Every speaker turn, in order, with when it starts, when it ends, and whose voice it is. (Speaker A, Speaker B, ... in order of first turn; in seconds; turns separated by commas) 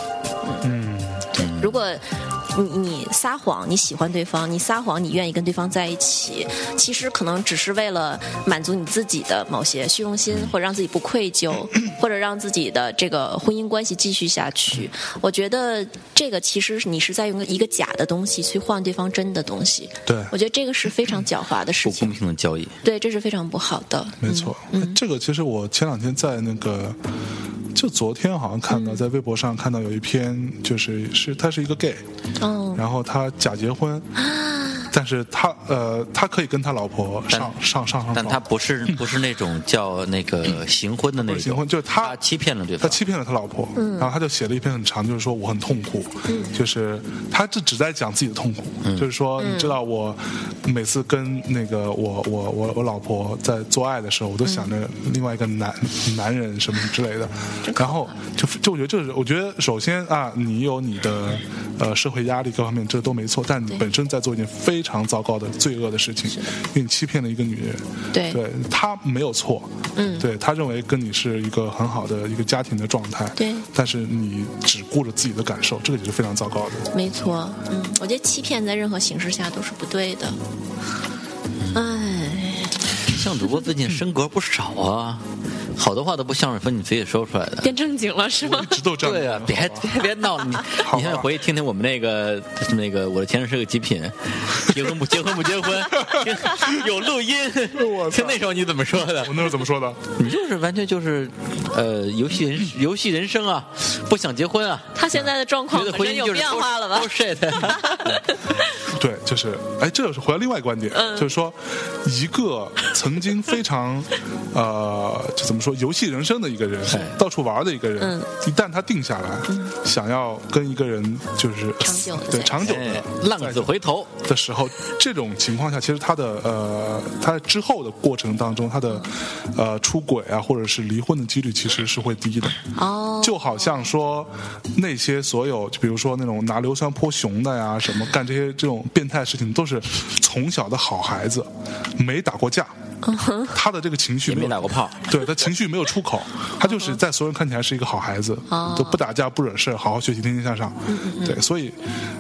Speaker A: 0.6-1.3, Speaker B: 1.4-22.2, Speaker C: 1.4-1.8, Speaker A: 20.1-20.3, Speaker C: 21.8-22.8, Speaker B: 22.8-25.0, Speaker A: 24.2-27.0, Speaker A: 27.7-32.0, Speaker B: 28.7-29.1, Speaker B: 32.4-32.8, Speaker A: 32.8-34.1, Speaker B: 34.2-34.9, Speaker A: 34.9-38.4, Speaker C: 37.3-37.5, Speaker C: 38.1-43.0, Speaker A: 41.2-42.2, Speaker A: 42.8-76.9, Speaker B: 43.8-44.1, Speaker B: 46.3-46.5, Speaker B: 49.4-49.8, Speaker B: 54.5-54.7, Speaker B: 57.6-58.1, Speaker B: 68.1-68.4, Speaker B: 70.0-70.3, Speaker B: 73.4-73.7, Speaker B: 76.9-80.4, Speaker B: 81.7-82.8, Speaker C: 83.1-87.7, Speaker B: 87.6-88.8, Speaker A: 88.4-90.0, Speaker C: 89.0-99.5, Speaker A: 90.8-91.3, Speaker A: 96.0-96.7, Speaker A: 97.7-98.4, Speaker A: 99.2-100.1, Speaker C: 100.2-105.0, Speaker B: 105.0-108.7, Speaker C: 105.7-108.2, Speaker A: 108.9-132.6, Speaker B: 110.9-111.3, Speaker C: 116.9-117.2, Speaker B: 118.0-118.3, Speaker B: 119.5-119.7, Speaker B: 121.8-122.7, Speaker C: 122.6-124.1, Speaker B: 132.8-133.9, Speaker A: 133.2-142.7, Speaker B: 143.0-143.6, Speaker A: 143.5-151.8, Speaker C: 144.3-145.0, Speaker B: 146.6-147.0, Speaker B: 148.5-149.0, Speaker B: 150.9-151.4